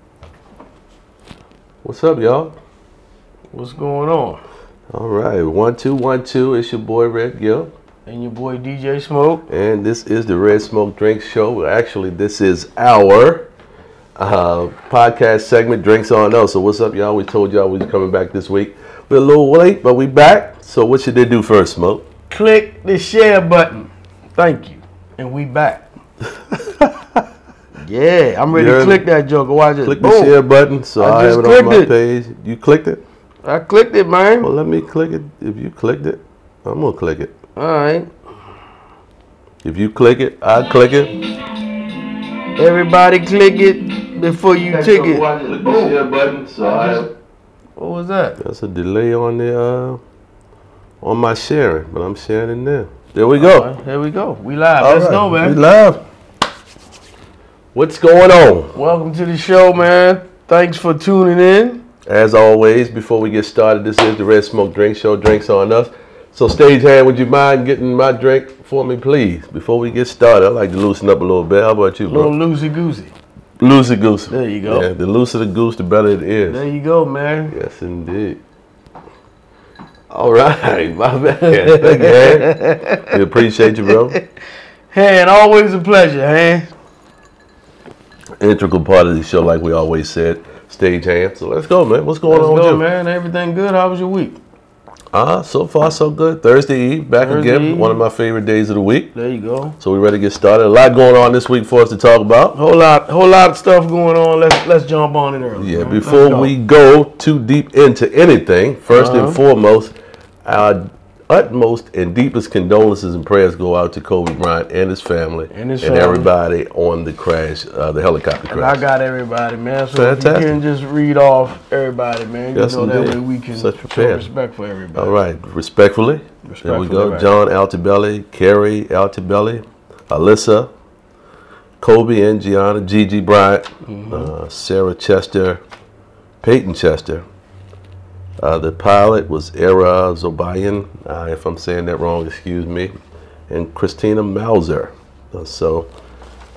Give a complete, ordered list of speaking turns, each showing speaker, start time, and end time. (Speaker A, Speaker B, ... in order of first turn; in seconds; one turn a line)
Speaker A: 1.8-2.5
Speaker B: 3.5-4.4
Speaker A: 4.9-7.7
Speaker B: 8.1-9.5
Speaker A: 9.5-13.5
Speaker A: 14.2-22.0
Speaker B: 22.3-25.9
Speaker A: 26.5-27.2
Speaker B: 27.8-30.4
Speaker A: 28.5-29.0
Speaker A: 29.8-33.0
Speaker B: 31.0-31.9
Speaker B: 33.4-34.5
Speaker A: 34.4-37.3
Speaker B: 37.5-38.1
Speaker A: 39.6-41.1
Speaker B: 42.5-45.3
Speaker A: 44.7-47.1
Speaker B: 46.6-47.0
Speaker B: 47.8-48.4
Speaker A: 48.4-50.0
Speaker A: 51.0-53.7
Speaker B: 53.4-55.6
Speaker A: 54.8-56.0
Speaker A: 57.7-58.8
Speaker B: 58.7-61.8
Speaker A: 62.0-72.3
Speaker B: 72.1-73.1
Speaker A: 73.6-76.6
Speaker B: 74.3-74.9
Speaker B: 76.5-77.5
Speaker A: 77.5-78.4
Speaker A: 80.1-84.2
Speaker B: 81.5-83.2
Speaker B: 84.9-86.7
Speaker A: 88.4-92.8
Speaker B: 92.3-94.4
Speaker A: 95.1-99.1
Speaker B: 97.2-98.0
Speaker B: 99.1-99.8
Speaker A: 99.8-102.5
Speaker B: 102.5-106.5
Speaker A: 105.6-118.8
Speaker B: 108.9-109.4
Speaker B: 115.5-116.3
Speaker B: 118.5-125.1
Speaker A: 119.9-120.6
Speaker A: 122.5-124.3
Speaker A: 124.9-130.7
Speaker B: 126.4-127.3
Speaker A: 131.8-135.6
Speaker B: 133.8-134.3
Speaker A: 136.4-137.2
Speaker A: 138.4-142.9
Speaker A: 143.5-145.9